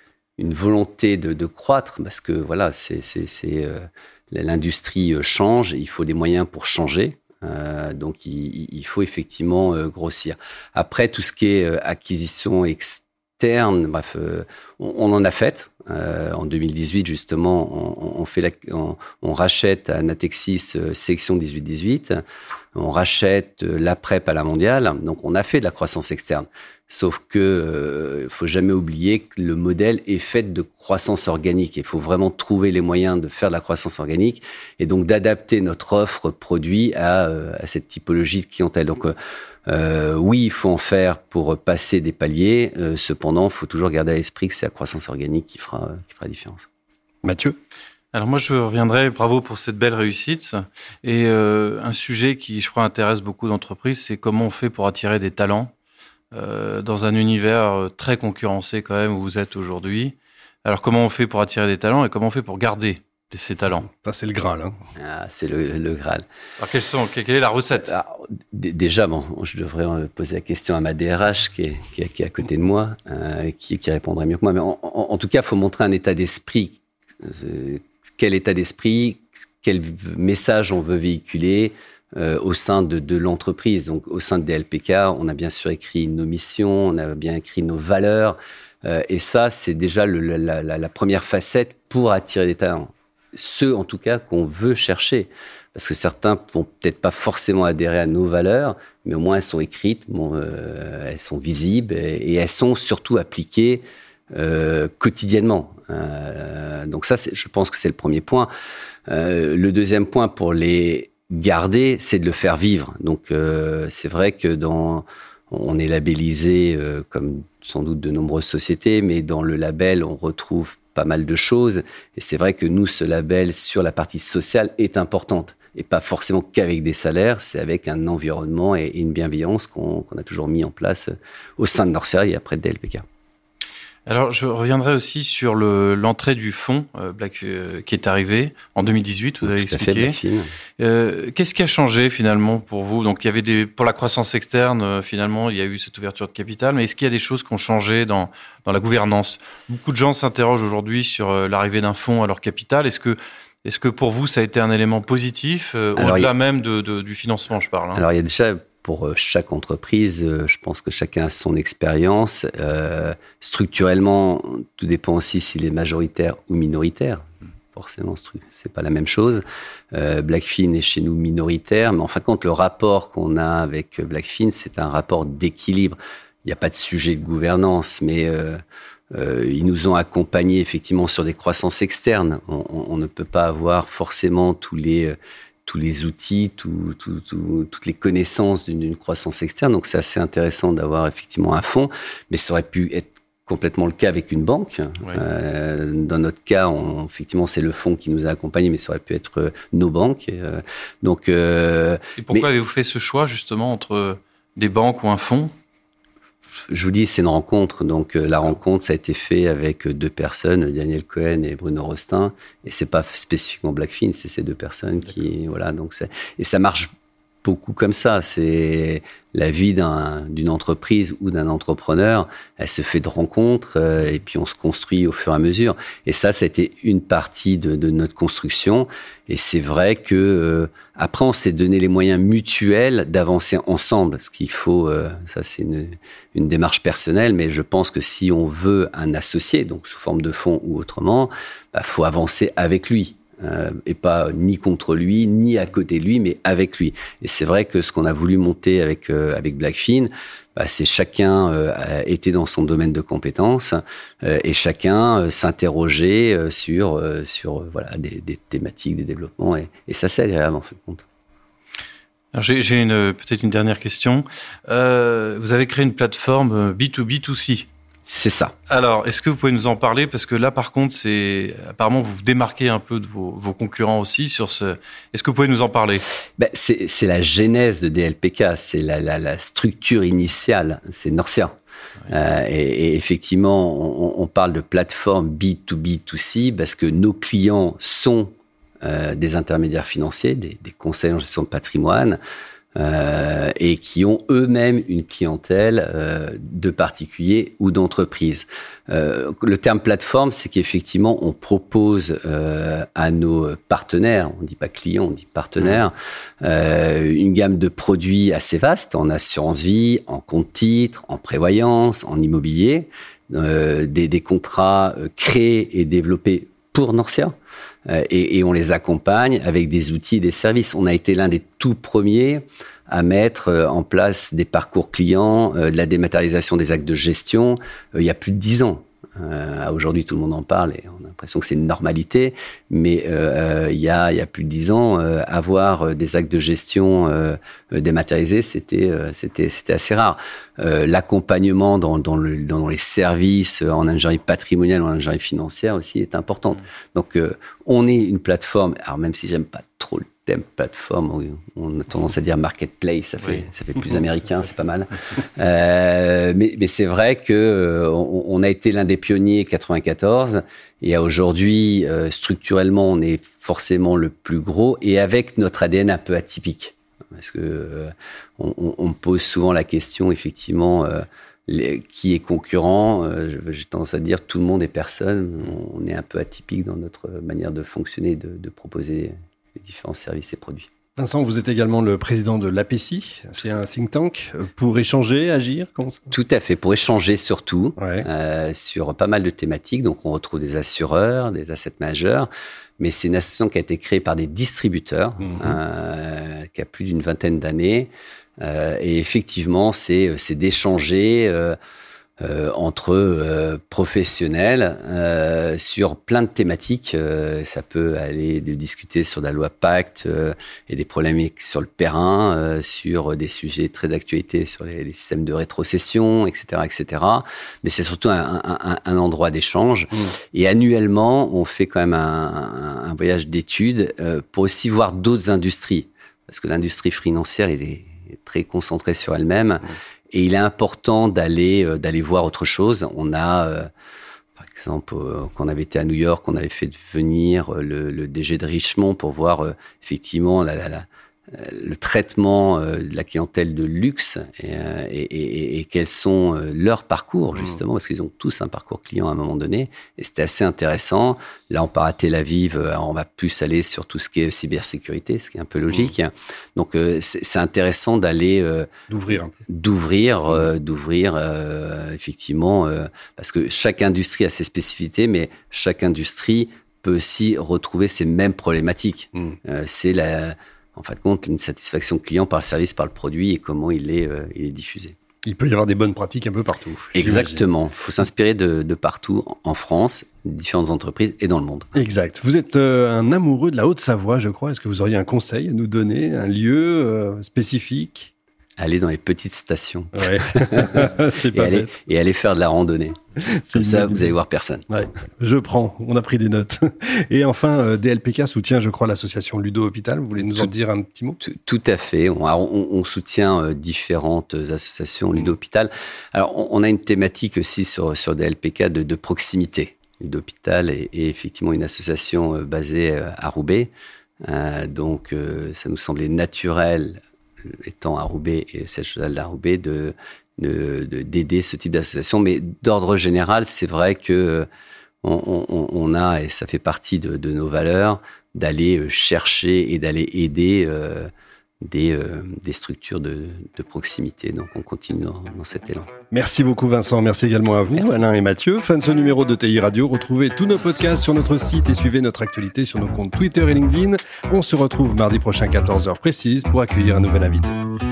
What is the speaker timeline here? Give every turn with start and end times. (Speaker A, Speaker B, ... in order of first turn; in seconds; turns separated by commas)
Speaker A: 0.4-22.2, Speaker A: 22.7-39.1, Speaker A: 39.7-46.7, Speaker B: 47.2-47.6, Speaker C: 48.1-55.7, Speaker C: 56.3-63.9, Speaker B: 63.9-64.8, Speaker A: 65.0-66.2, Speaker C: 66.6-67.9, Speaker A: 67.8-108.5, Speaker A: 109.1-133.0, Speaker C: 134.1-140.2, Speaker A: 139.4-140.5, Speaker C: 140.8-158.0, Speaker A: 155.9-156.3, Speaker A: 157.9-167.2, Speaker A: 167.7-169.4, Speaker A: 169.9-178.6, Speaker A: 179.1-202.5, Speaker C: 202.2-205.5, Speaker A: 206.7-216.9, Speaker A: 217.4-261.0, Speaker C: 262.3-267.7, Speaker A: 268.1-268.5, Speaker C: 268.7-276.0, Speaker A: 276.4-281.5, Speaker A: 282.1-292.2, Speaker A: 292.8-317.3, Speaker A: 317.9-380.7, Speaker C: 353.2-353.4, Speaker B: 380.9-386.1, Speaker A: 386.1-392.3, Speaker B: 387.8-388.1, Speaker A: 392.8-401.6, Speaker B: 395.2-395.6, Speaker A: 402.2-433.7, Speaker A: 434.4-458.7, Speaker B: 458.9-459.3, Speaker A: 459.5-474.9, Speaker B: 475.2-477.4, Speaker A: 476.9-481.7, Speaker B: 481.7-488.1, Speaker A: 488.6-493.0, Speaker B: 489.9-491.7, Speaker B: 493.2-494.1, Speaker A: 493.5-494.6, Speaker B: 494.7-501.2, Speaker A: 501.2-513.7, Speaker A: 514.2-524.5, Speaker A: 525.0-531.1, Speaker A: 531.6-535.9, Speaker B: 536.1-547.6, Speaker A: 537.7-538.0